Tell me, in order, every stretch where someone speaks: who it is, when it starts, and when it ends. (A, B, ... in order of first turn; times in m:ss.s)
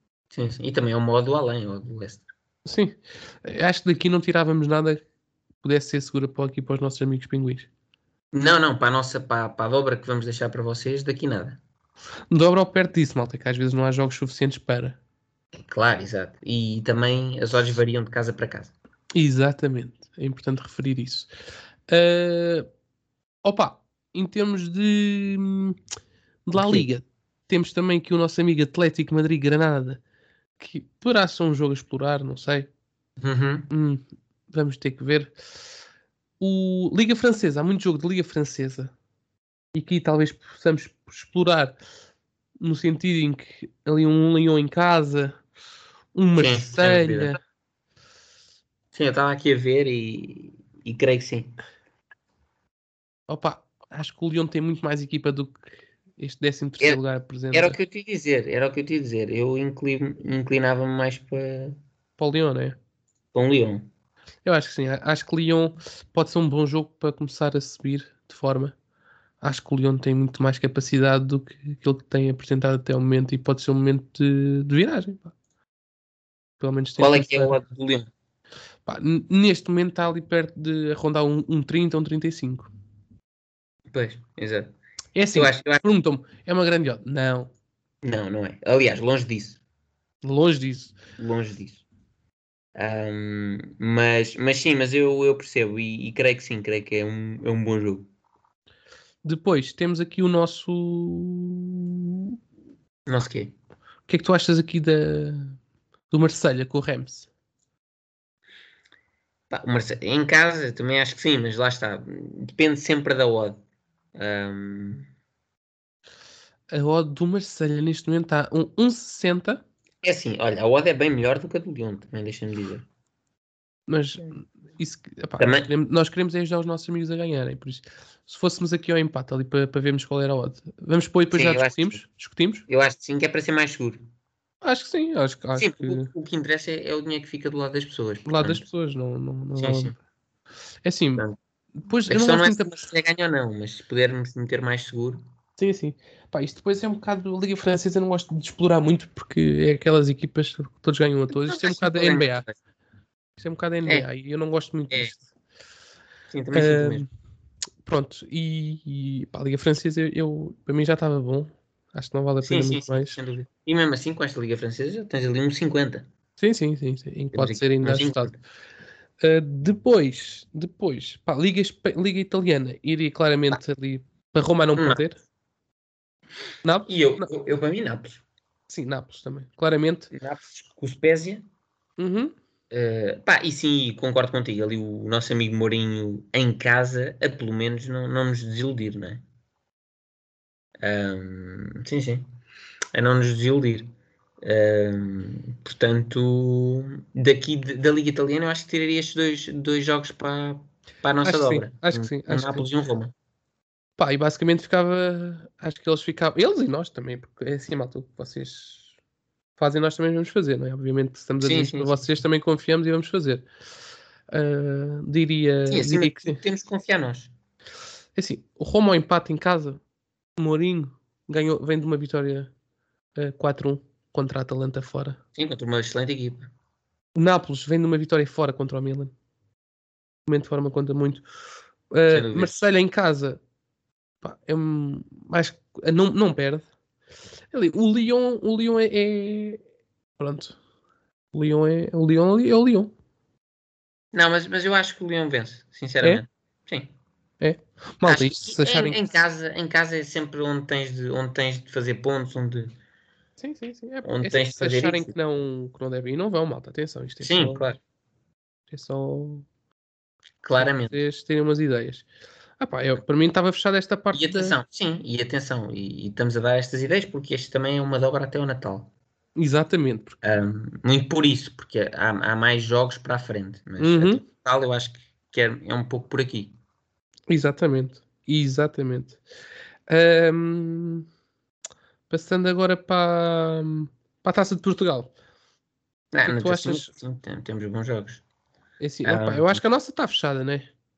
0:00.3-0:02.3 A
0:02.7-0:05.0 B
0:05.6-0:07.7 B
0:08.3-0:11.6 A
0:12.3-0:15.0 B
0:15.5-0:18.7 A
0:19.2-0:21.3 B
0:21.9-0:22.7 B
0:23.4-0:25.8 B
0:26.5-0:30.0 B
0:26.6-0:26.9 A
0:30.6-0:32.7 B
0:33.2-0:33.7 A
0:33.7-0:35.3 B
0:36.4-0:38.9 B
0:39.8-0:41.8 B
0:42.6-0:45.4 B
0:46.2-0:47.4 B
0:46.4-0:47.4 A
0:48.9-0:51.5 A
0:53.3-0:57.8 B
0:57.5-1:01.8 A
1:02.2-1:02.8 B
1:03.3-1:03.9 A
1:04.4-1:08.8 B
1:09.4-1:15.3 B
1:16.6-1:17.6 B
1:17.0-1:18.1 A
1:18.9-1:22.7 B
1:23.9-1:24.8 A
1:25.2-1:27.5 B
1:25.3-1:25.8 A
1:28.0-1:29.6 A
1:30.2-1:31.0 B
1:31.2-1:31.8 A
1:32.8-1:38.1 A
1:39.2-1:42.3 B
1:43.1-1:43.6 A
1:44.1-1:45.6 B
1:46.1-1:47.3 B
1:49.5-1:53.6 A
1:54.2-1:55.1 A
1:56.7-1:59.6 B
2:00.0-2:02.9 A
2:03.9-2:12.6 B
2:05.4-2:05.7 A
2:11.3-2:12.0 A
2:12.7-2:14.0 A
2:14.6-2:16.1 B
2:15.6-2:18.6 A
2:18.2-2:19.9 B
2:19.6-2:19.9 A
2:20.8-2:21.3 B
2:21.8-2:22.9 B
2:22.1-2:25.2 A
2:25.6-2:32.5 B
2:31.4-2:32.6 A
2:33.4-2:35.3 B
2:36.3-2:37.1 A
2:36.5-2:37.1 B
2:37.8-2:43.2 B
2:42.4-2:46.1 A
2:46.4-2:48.3 B
2:47.3-2:48.4 A
2:49.2-2:55.2 B
2:54.8-2:55.0 A
2:56.6-2:57.3 B
2:56.9-2:58.2 A
2:58.7-3:00.1 B
3:00.1-3:01.4 A
3:02.0-3:02.3 B
3:02.7-3:09.2 A
3:10.8-3:12.3 A
3:12.9-3:13.9 A
3:14.4-3:23.1 A
3:21.2-3:22.7 B
3:24.0-3:28.9 B
3:29.6-3:33.5 B
3:31.4-3:32.0 A
3:34.3-3:36.4 B
3:35.7-3:37.3 A
3:38.2-3:39.8 B
3:40.4-3:42.5 B
3:43.2-3:45.2 B
3:45.4-3:46.5 A
3:47.2-3:49.1 B
3:50.3-3:51.2 B
3:51.9-3:53.4 B
3:52.1-3:52.7 A
3:54.2-3:56.6 B
3:57.5-3:59.6 B
4:00.2-4:00.6 B
4:01.3-4:02.9 B
4:04.1-4:06.9 A
4:07.4-4:09.0 B
4:08.0-4:12.8 A
4:13.4-4:17.6 B
4:14.0-4:15.1 A
4:17.2-4:17.8 A
4:18.7-4:19.5 B
4:20.4-4:21.0 A
4:20.6-4:22.1 B
4:22.6-4:24.6 B
4:24.1-4:28.9 A
4:29.4-4:30.2 B
4:30.2-4:36.6 A
4:33.8-4:34.2 B
4:37.3-4:39.2 B
4:39.9-4:41.0 B
4:42.1-4:45.1 B
4:46.1-4:48.2 A
4:46.2-4:47.0 B
4:48.8-4:50.7 B
4:49.0-4:49.6 A